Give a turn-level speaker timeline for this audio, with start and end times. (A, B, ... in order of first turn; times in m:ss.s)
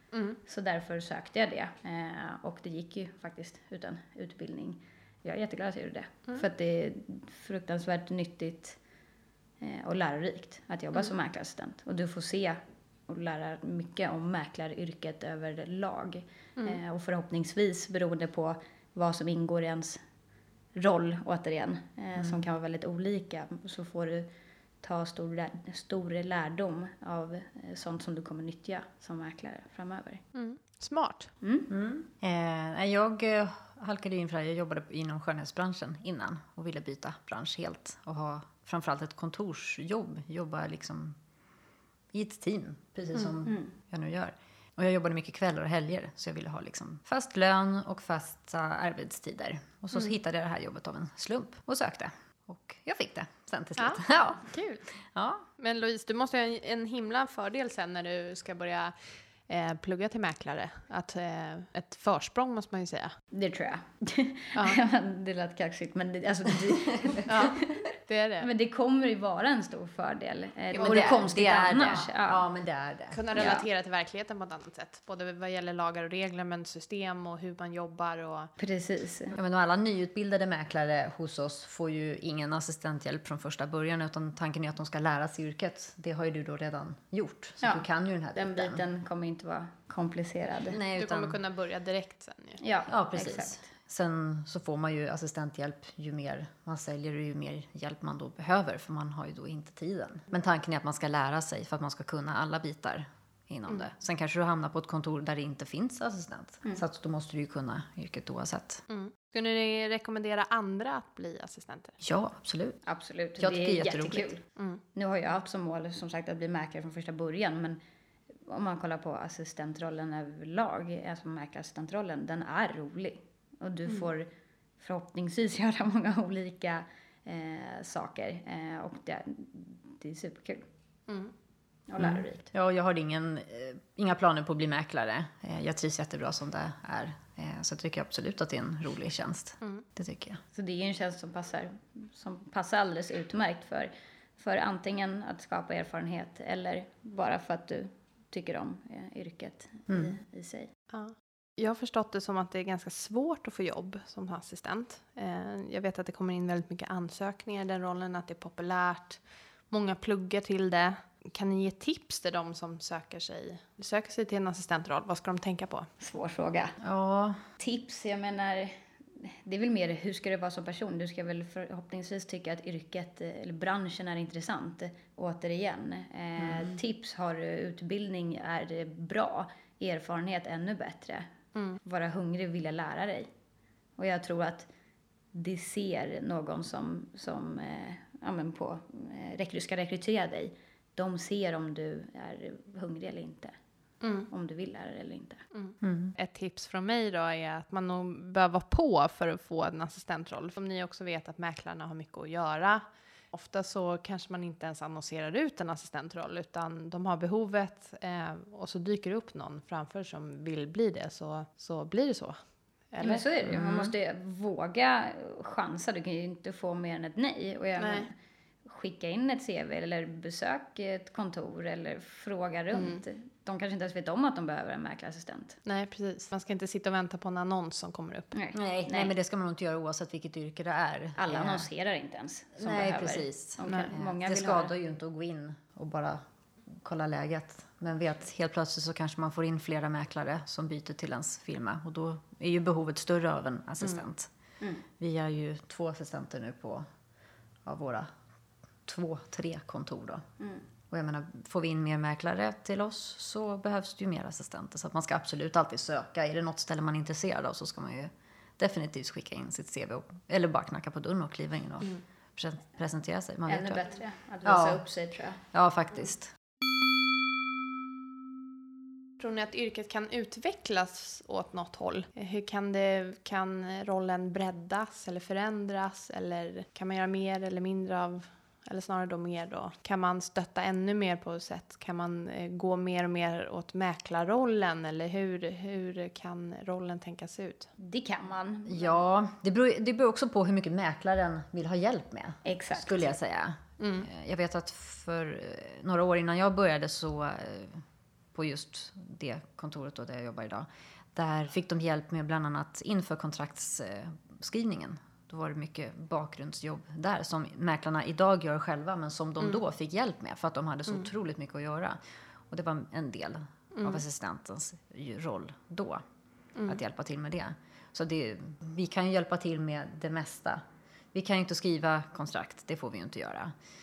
0:00.1-0:00.4 A
0:00.4-0:08.8 B
0:09.6-0:20.0 B
0:20.7-0:24.3 B
0:24.8-0:30.2 B
0:30.3-0:31.3 A
0:31.4-0:31.7 B
0:31.7-0:41.2 C
0:42.1-0:55.4 C
0:43.4-0:43.7 B
0:53.8-0:54.8 A
0:55.6-1:03.1 A
1:03.3-1:07.8 B
1:07.3-1:08.5 A
1:08.4-1:12.4 B
1:10.7-1:11.2 A
1:10.8-1:13.2 C
1:13.1-1:18.5 A
1:13.4-1:13.6 B
1:18.6-1:19.4 B
1:19.3-1:28.8 C
1:27.6-1:30.8 B
1:30.7-1:31.4 C
1:31.0-1:32.6 A
1:32.6-1:33.6 B
1:32.9-1:48.8 C
1:48.9-1:52.0 A
1:52.0-1:52.8 C
1:52.9-1:57.8 B
1:53.4-1:54.3 C
1:58.4-2:04.3 B
2:04.8-2:10.6 B
2:11.1-2:11.3 A
2:11.9-2:12.5 B
2:12.0-2:20.4 C
2:19.6-2:19.9 A
2:20.5-2:30.7 B
2:29.9-2:30.2 C
2:30.9-2:45.9 A
2:46.0-2:46.8 B
2:46.8-2:47.4 C
2:47.6-3:01.3 B
2:56.4-2:56.7 C
3:01.8-3:03.3 B
3:04.0-3:04.7 B
3:05.3-3:13.5 B
3:14.0-3:14.3 A
3:14.3-3:15.4 B
3:15.5-3:33.2 A
3:15.8-3:16.1 C
3:33.0-3:38.1 B
3:33.4-3:33.9 C
3:37.8-3:38.1 A
3:38.6-3:45.6 B
3:42.7-3:43.0 A
3:45.6-3:48.3 A
3:48.3-3:49.1 B
3:48.5-3:51.7 C
3:51.2-3:54.7 B
3:52.6-4:04.3 C
3:53.6-3:53.9 A
4:05.0-4:06.8 C
4:07.6-4:08.1 C
4:08.8-4:10.2 C
4:10.9-4:23.8 C
4:23.5-4:25.4 B
4:24.4-4:24.8 C
4:25.5-4:26.3 C
4:29.2-4:47.7 A
4:47.8-4:49.0 B
4:48.7-4:57.8 C
4:52.4-4:53.0 B
4:53.8-4:54.1 A
4:58.3-5:16.0 C
5:13.7-5:14.0 A
5:16.7-5:20.6 C
5:21.1-5:23.5 C